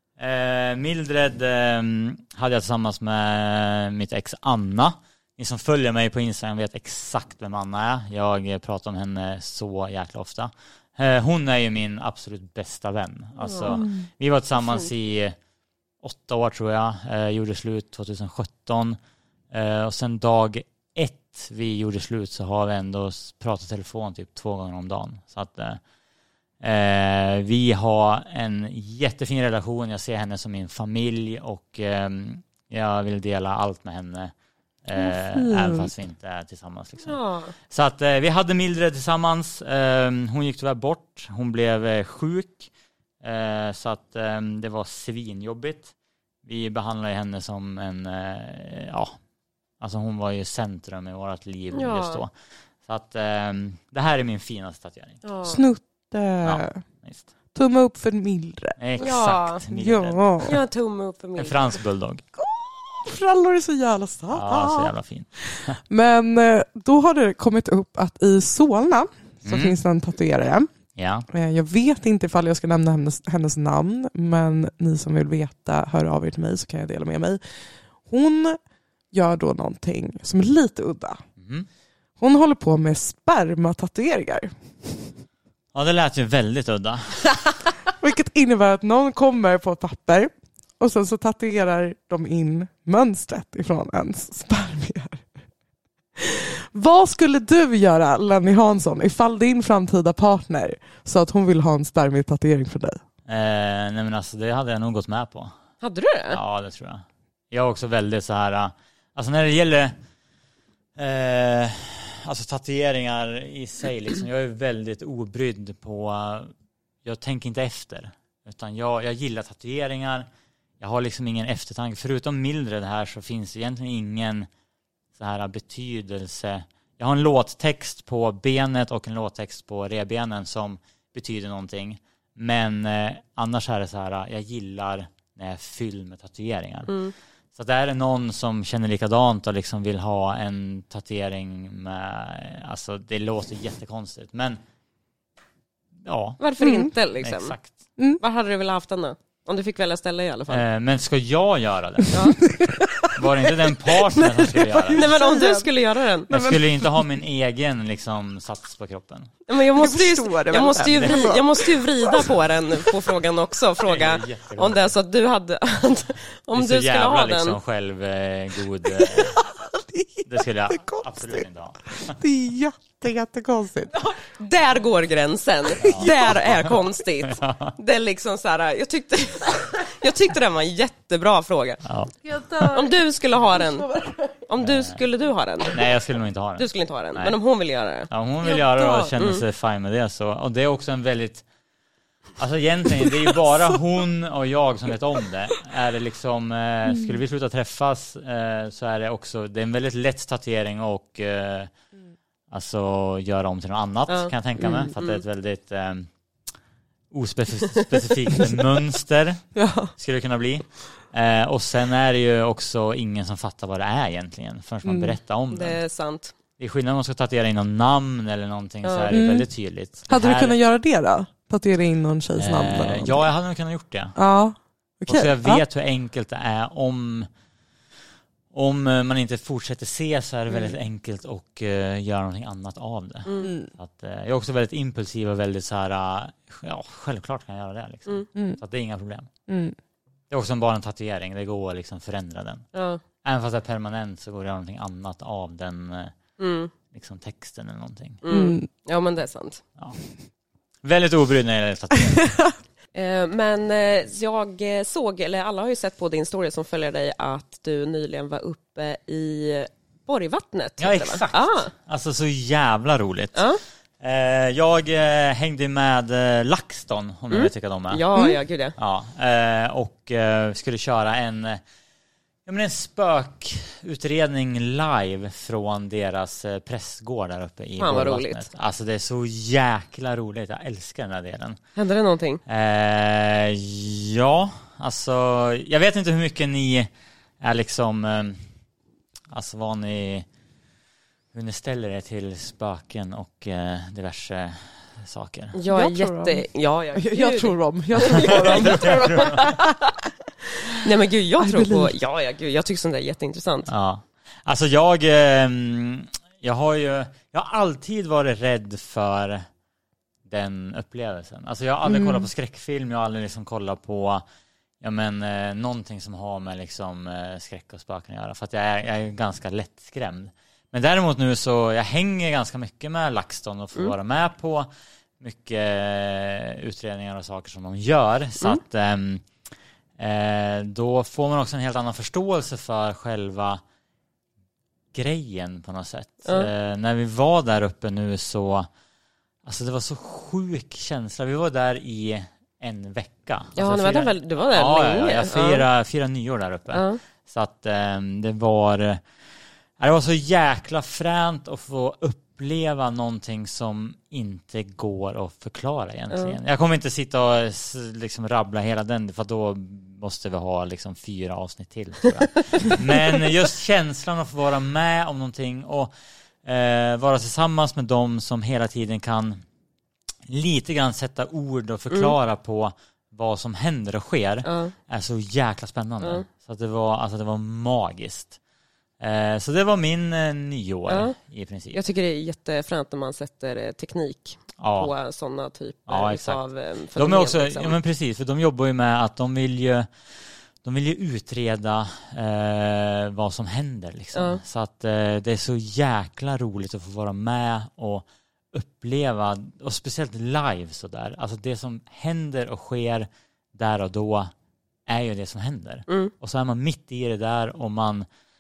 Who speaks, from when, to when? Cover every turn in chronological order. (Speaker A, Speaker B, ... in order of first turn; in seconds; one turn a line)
Speaker A: 0.2-15.4
Speaker B: 13.4-13.9
Speaker C: 13.7-14.1
Speaker B: 14.6-14.9
Speaker A: 16.0-19.0
Speaker A: 19.5-25.8
Speaker A: 26.6-34.3
Speaker A: 34.8-42.7
Speaker C: 35.0-35.9
Speaker B: 37.0-37.5
Speaker A: 43.2-45.9
Speaker A: 46.4-49.2
Speaker A: 49.8-52.3
Speaker B: 51.7-52.2
Speaker A: 52.9-55.2
Speaker B: 55.2-55.6
Speaker C: 55.5-56.8
Speaker A: 56.4-57.3
Speaker C: 57.5-58.8
Speaker A: 58.8-60.6
Speaker B: 59.0-59.6
Speaker C: 59.7-60.5
Speaker B: 60.4-61.7
Speaker A: 61.4-62.2
Speaker C: 62.4-64.9
Speaker A: 64.3-65.8
Speaker C: 65.4-70.7
Speaker A: 69.5-69.8
Speaker A: 71.0-71.3
Speaker C: 71.3-77.4
Speaker C: 78.1-78.6
Speaker C: 79.1-81.2
Speaker A: 81.4-81.7
Speaker C: 82.2-84.5
Speaker A: 85.7-87.3
Speaker C: 88.0-95.2
Speaker C: 96.2-103.0
Speaker A: 103.3-105.5
Speaker B: 105.8-106.4
Speaker A: 106.3-109.9
Speaker A: 111.0-116.5
Speaker A: 117.0-120.3
Speaker A: 120.8-124.5
Speaker A: 125.2-136.9
Speaker B: 136.9-137.1
Speaker A: 137.6-144.6
Speaker A: 146.0-146.4
Speaker B: 146.4-147.6
Speaker C: 146.6-146.9
Speaker A: 147.2-147.8
Speaker B: 148.2-150.6
Speaker A: 150.5-152.4
Speaker B: 152.1-152.4
Speaker C: 152.4-155.7
Speaker A: 153.1-155.1
Speaker B: 154.9-156.3
Speaker C: 156.3-157.1
Speaker A: 156.3-159.3
Speaker B: 159.5-167.6
Speaker C: 159.8-162.3
Speaker A: 160.9-161.3
Speaker A: 163.8-164.9
Speaker A: 166.5-169.4
Speaker C: 169.0-171.4
Speaker A: 170.3-172.2
Speaker C: 172.0-173.9
Speaker B: 173.9-181.8
Speaker A: 175.8-177.8
Speaker C: 175.9-176.3
Speaker A: 181.8-182.1
Speaker C: 182.2-182.9
Speaker B: 182.6-183.9
Speaker C: 183.5-184.3
Speaker B: 184.5-185.8
Speaker A: 184.6-185.0
Speaker A: 185.7-187.4
Speaker B: 186.6-189.4
Speaker A: 188.1-191.5
Speaker A: 192.4-201.7
Speaker C: 196.9-197.2
Speaker A: 202.5-206.1
Speaker B: 204.1-205.2
Speaker A: 207.1-215.8
Speaker C: 209.6-209.9
Speaker C: 214.8-215.2
Speaker B: 215.5-216.3
Speaker A: 216.6-220.6
Speaker B: 218.8-219.1
Speaker C: 219.1-219.5
Speaker C: 220.1-223.3
Speaker A: 222.4-224.2
Speaker C: 224.2-225.6
Speaker A: 225.1-227.3
Speaker A: 228.5-239.3
Speaker B: 233.3-233.5
Speaker C: 233.4-233.7
Speaker C: 239.5-239.8
Speaker A: 240.3-242.7
Speaker B: 242.7-243.0
Speaker A: 243.2-246.2
Speaker B: 246.4-246.7
Speaker A: 246.9-248.2
Speaker B: 248.2-249.6
Speaker C: 248.3-248.7
Speaker A: 250.8-252.3
Speaker B: 252.9-261.7
Speaker A: 260.8-263.5
Speaker B: 263.4-263.6
Speaker A: 264.0-268.0
Speaker B: 267.3-268.8
Speaker A: 268.8-271.6
Speaker A: 272.5-281.6
Speaker B: 277.8-278.5
Speaker B: 281.8-282.4
Speaker A: 282.5-286.9
Speaker A: 287.4-288.4
Speaker A: 289.3-290.3
Speaker A: 291.3-295.6
Speaker B: 295.5-299.9
Speaker C: 295.7-296.4
Speaker C: 296.9-299.7
Speaker A: 298.0-299.5
Speaker B: 300.8-303.7
Speaker C: 301.4-301.9
Speaker A: 303.7-309.5
Speaker A: 310.3-314.2
Speaker C: 311.9-312.3
Speaker A: 314.8-324.7
Speaker A: 325.2-329.3
Speaker A: 330.0-333.6
Speaker A: 334.9-338.7
Speaker B: 336.2-336.5
Speaker A: 339.4-349.0
Speaker B: 343.6-345.7
Speaker B: 346.7-347.0
Speaker A: 349.8-365.9
Speaker B: 356.1-356.4
Speaker A: 366.4-369.4
Speaker A: 370.3-378.4
Speaker B: 374.4-374.7
Speaker B: 376.0-376.3
Speaker A: 379.0-381.8
Speaker B: 380.9-381.1
Speaker B: 381.7-387.8
Speaker A: 384.6-384.9
Speaker A: 385.9-386.4
Speaker A: 387.0-389.9
Speaker A: 390.6-404.3
Speaker B: 394.1-394.4
Speaker A: 404.9-408.1
Speaker B: 405.9-406.1